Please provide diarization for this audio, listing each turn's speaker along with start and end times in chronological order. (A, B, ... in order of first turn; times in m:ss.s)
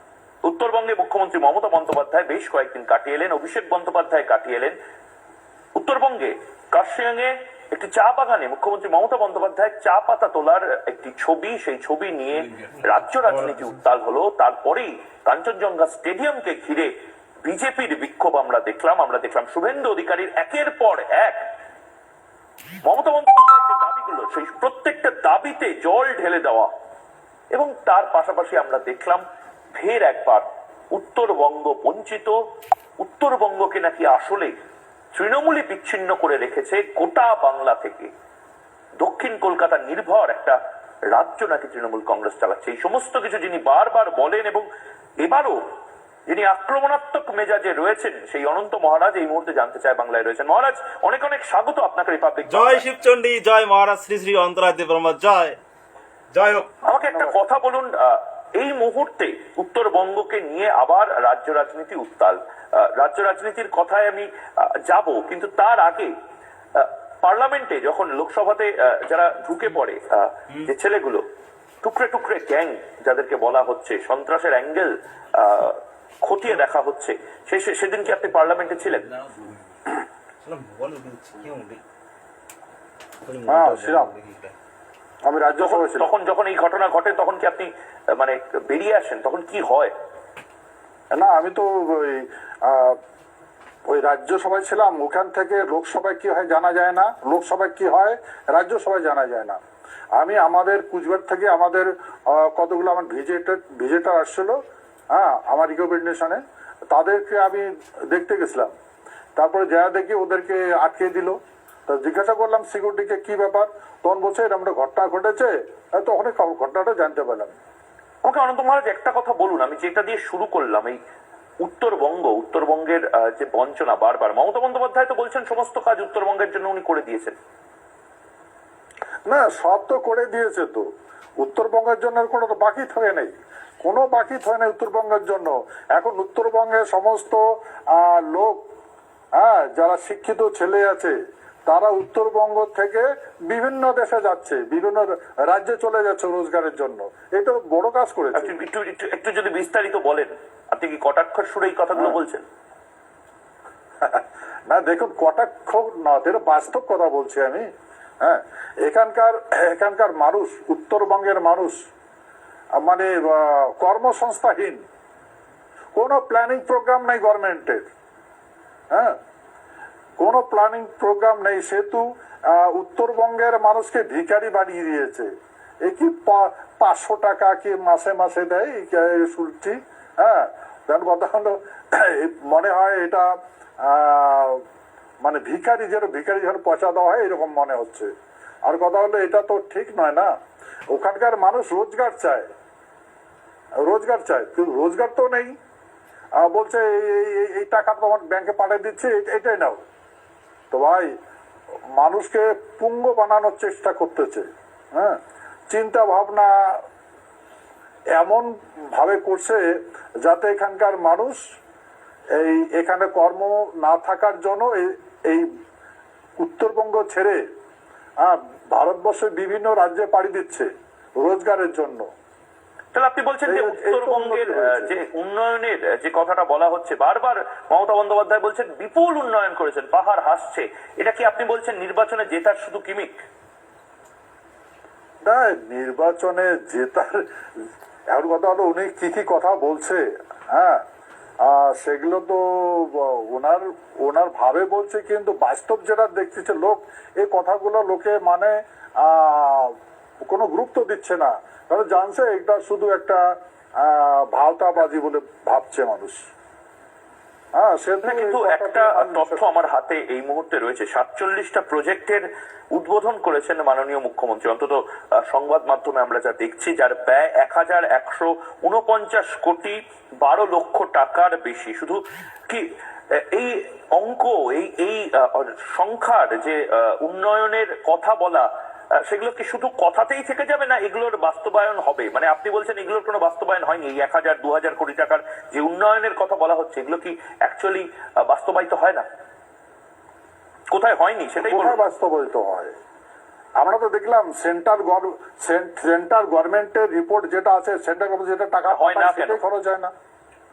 0:00.4-0:04.8 A
0:05.8-0:16.9 A
0:17.4-0:21.4 A
0:22.8-0:26.7 A
0:27.5-0:29.2 A
0:29.8-0:32.4 A
0:33.0-0:34.5 A
0:35.1-0:38.1 A
0:39.0-0:40.6 A
0:41.1-0:44.7 A
0:45.2-0:45.6 A
0:46.3-0:52.8 A
0:52.5-0:55.6 B
0:56.3-0:56.7 B
0:56.8-1:06.1 A
0:56.9-0:57.4 C
1:06.7-1:11.2 A
1:11.8-1:19.1 A
1:19.2-1:19.6 B
1:20.4-1:21.8 B
1:23.2-1:24.5 B
1:23.5-1:24.2 C
1:25.2-1:26.1 C
1:25.6-1:29.9 A
1:31.2-1:33.0 C
1:33.9-1:39.6 C
1:40.2-1:44.6 C
1:45.1-1:46.4 C
1:46.9-1:48.7 C
1:49.4-1:51.4 C
1:51.9-1:57.6 C
1:58.2-2:01.0 A
2:01.6-2:07.4 A
2:09.3-2:10.9 C
2:11.4-2:18.6 C
2:19.4-2:21.2 C
2:21.7-2:28.5 C
2:28.3-2:32.4 A
2:34.0-2:37.7 C
2:38.2-2:41.8 C
2:42.8-2:44.8 C
2:46.0-2:47.9 C
2:50.2-2:55.3 C
2:55.8-3:03.3 C
3:03.8-3:04.6 C
3:05.2-3:08.1 C
3:08.6-3:10.3 C
3:10.9-3:12.5 C
3:13.8-3:15.6 C
3:16.4-3:19.8 C
3:20.7-3:21.1 C
3:21.9-3:25.2 C
3:25.7-3:26.8 C
3:28.2-3:31.4 C
3:32.4-3:35.5 C
3:36.4-3:37.4 C
3:38.2-3:42.1 C
3:42.9-3:53.1 A
3:43.5-3:44.9 C
3:55.2-3:57.2 C
3:58.1-4:00.8 C
4:01.4-4:09.8 C
4:10.3-4:13.2 C
4:13.8-4:16.3 C
4:17.6-4:19.5 C
4:18.0-4:49.0 A
4:50.7-4:51.8 A
4:51.4-4:52.7 C
4:53.6-4:59.9 C
4:58.7-4:59.4 A